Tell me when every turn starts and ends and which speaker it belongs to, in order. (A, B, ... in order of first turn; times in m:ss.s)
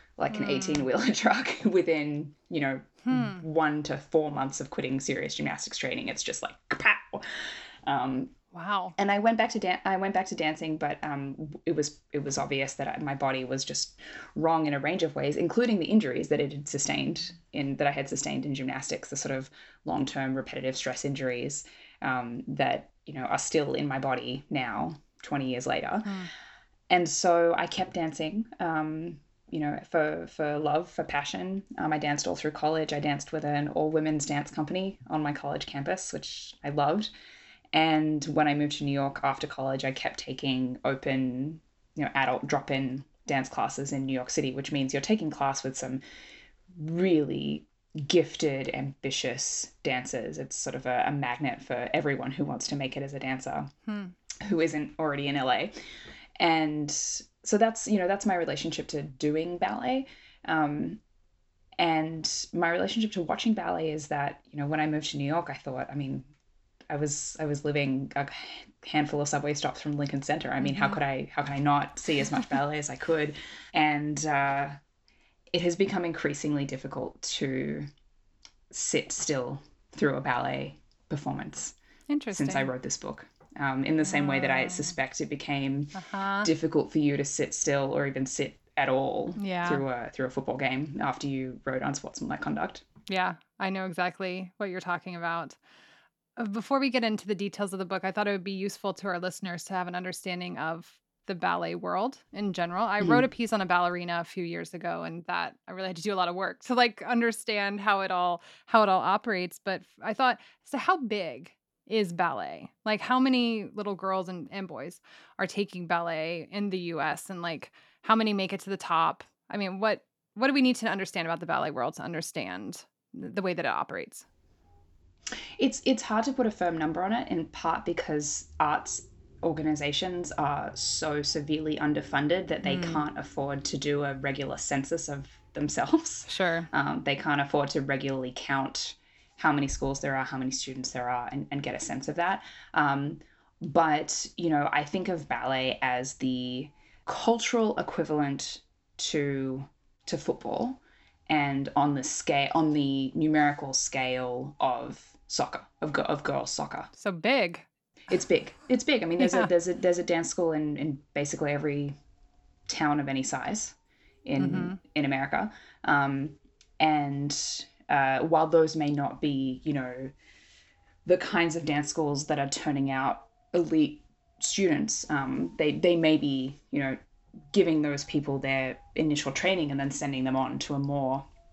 0:00.2-0:08.4 A
0:00.3-0:00.9 B
0:03.1-0:03.4 B
0:08.5-0:09.0 B
0:09.0-0:26.1 A
0:26.0-0:26.3 B
0:26.9-0:37.1 A
0:37.7-0:46.0 A
0:46.7-0:53.7 A
0:53.9-0:54.1 B
0:54.4-0:55.8 A
0:56.4-1:01.0 A
1:01.8-1:06.3 A
1:06.9-1:14.8 A
1:10.6-1:11.0 B
1:15.5-1:17.9 A
1:18.7-1:21.8 A
1:22.1-1:22.7 B
1:22.3-1:32.8 A
1:24.1-1:24.9 B
1:25.9-1:26.5 B
1:29.4-1:29.8 B
1:33.1-1:35.6 B
1:36.4-2:04.2 B
2:05.6-2:36.9 A
2:12.6-2:13.1 B
2:16.3-2:16.7 B
2:37.0-2:37.7 B
2:38.1-2:41.9 A
2:39.2-2:39.5 B
2:42.7-2:50.1 A
2:44.4-2:44.8 B
2:51.1-2:57.0 A
2:57.5-3:01.2 A